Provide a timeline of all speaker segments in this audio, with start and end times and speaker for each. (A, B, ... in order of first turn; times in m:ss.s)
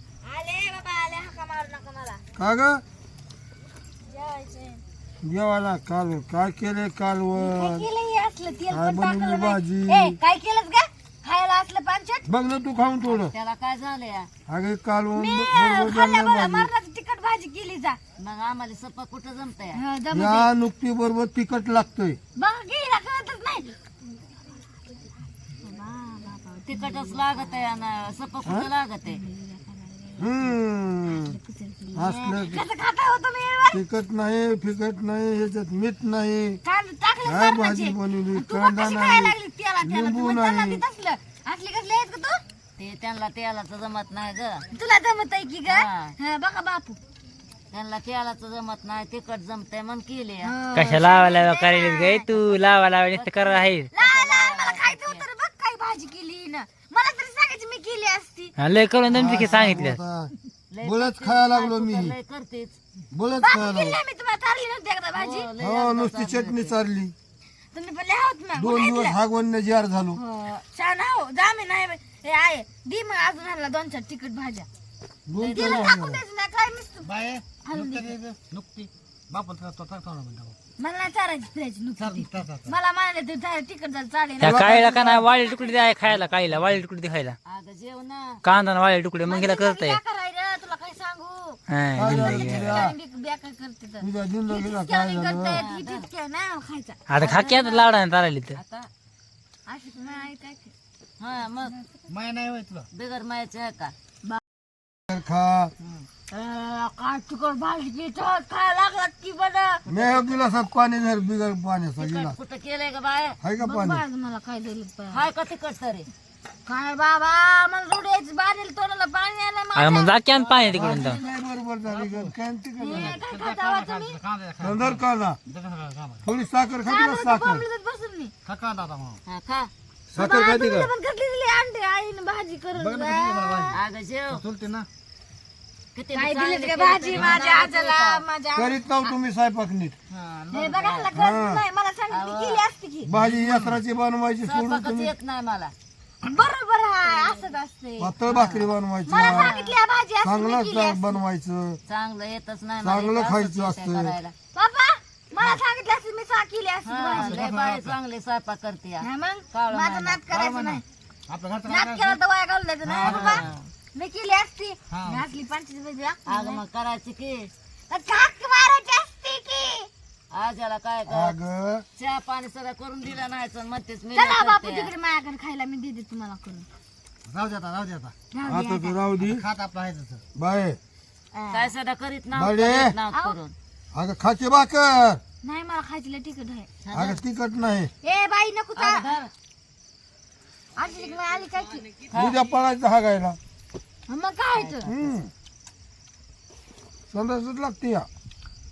0:00.2-0:02.2 A
0:02.4-0:02.8 B
0:04.1-0:04.8 A
0:05.2-0:07.9 B
0:07.3-0:12.3 A
0:08.7-0:10.2 B
0:12.3-0:13.3 B
0:13.0-0:14.3 C
0:14.5-0:16.7 B
0:15.2-0:18.0 A
0:18.2-0:19.8 C
0:19.7-0:20.5 A
0:20.1-0:22.2 B
0:22.4-0:23.8 A
0:25.4-0:27.7 A
0:26.6-0:29.2 C
0:29.1-0:30.4 A
0:30.2-0:31.4 B
0:31.1-0:33.8 A
0:32.0-0:32.6 B
0:33.7-0:36.6 B
0:36.6-0:42.4 A
0:37.2-0:40.8 B
0:42.8-0:44.6 C
0:44.7-0:47.0 A
0:45.7-0:46.1 C
0:47.7-0:50.5 C
0:50.4-0:52.2 A
0:50.7-0:53.9 D
0:52.3-0:55.2 C
0:53.9-0:58.5 A
0:58.6-1:00.0 D
0:59.1-1:00.3 B
0:59.2-0:59.5 C
1:00.7-1:02.8 C
1:00.8-1:02.1 B
1:03.1-1:04.0 B
1:03.4-1:05.5 A
1:05.1-1:06.8 C
1:05.6-1:07.1 B
1:07.7-1:09.2 A
1:08.5-1:10.2 B
1:10.1-1:14.7 A
1:15.3-1:16.2 B
1:15.4-1:15.9 C
1:15.4-1:18.2 A
1:17.0-1:20.6 E
1:20.8-1:25.9 A
1:22.0-1:22.7 E
1:24.4-1:27.4 D
1:26.1-1:26.6 E
1:27.4-1:28.4 C
1:28.4-1:30.0 D
1:29.2-1:37.0 A
1:31.7-1:32.8 D
1:31.9-1:33.0 B
1:34.0-1:35.6 B
1:35.5-1:36.1 C
1:37.1-1:38.6 D
1:37.2-1:37.9 C
1:38.5-1:38.9 C
1:39.7-1:40.7 A
1:41.2-1:41.8 C
1:42.1-1:42.9 E
1:42.9-1:43.9 C
1:45.1-1:45.7 B
1:46.2-1:49.8 A
1:49.9-1:52.4 B
1:52.0-1:53.4 C
1:53.4-1:54.0 B
1:53.6-1:55.3 A
1:55.1-1:56.1 C
1:56.6-2:00.2 A
1:59.7-2:01.2 D
2:00.4-2:01.0 E
2:00.7-2:03.2 B
2:01.9-2:02.3 E
2:02.8-2:04.2 A
2:02.9-2:06.3 E
2:04.6-2:05.4 B
2:06.2-2:07.6 B
2:06.8-2:08.3 A
2:08.4-2:09.2 E
2:09.2-2:09.7 C
2:10.1-2:10.9 B
2:10.1-2:13.8 A
2:12.7-2:13.7 E
2:13.7-2:14.4 C
2:14.3-2:14.9 E
2:15.9-2:18.2 C
2:16.1-2:19.1 A
2:17.1-2:17.4 E
2:18.6-2:20.0 B
2:20.1-2:21.1 E
2:20.5-2:23.2 A
2:21.1-2:21.6 B
2:22.1-2:22.6 C
2:23.0-2:25.1 B
2:23.2-2:23.8 E
2:24.4-2:25.7 C
2:26.2-2:28.1 A
2:27.0-2:27.4 C
2:28.0-2:29.5 B
2:28.3-2:28.7 C
2:29.1-2:31.2 A
2:29.2-2:29.7 C
2:30.2-2:31.8 B
2:31.8-2:34.3 C
2:32.8-2:34.1 B
2:34.5-2:37.9 A
2:36.8-2:40.2 C
2:37.1-2:37.6 E
2:39.0-2:40.8 A
2:40.3-2:42.2 E
2:41.6-2:46.6 A
2:42.8-2:43.5 E
2:43.0-2:43.6 C
2:44.9-2:45.3 E
2:46.2-2:47.5 C
2:47.9-2:49.9 A
2:50.3-2:51.4 C
2:51.1-2:51.8 B
2:52.0-2:54.9 C
2:54.1-2:56.6 A
2:57.2-2:58.1 E
2:58.3-2:59.1 A
2:58.4-2:59.4 B
2:59.2-3:00.2 E
3:00.3-3:00.8 B
3:01.3-3:01.7 A
3:01.5-3:03.5 C
3:02.3-3:03.0 B
3:03.1-3:03.4 A
3:03.9-3:05.2 B
3:05.4-3:06.7 A
3:06.9-3:07.2 C
3:06.9-3:07.9 B
3:08.0-3:09.2 A
3:08.8-3:09.3 C
3:10.8-3:11.9 A
3:12.1-3:12.4 C
3:12.1-3:13.4 B
3:14.1-3:14.9 A
3:14.5-3:15.1 C
3:14.8-3:15.3 B
3:17.1-3:18.1 B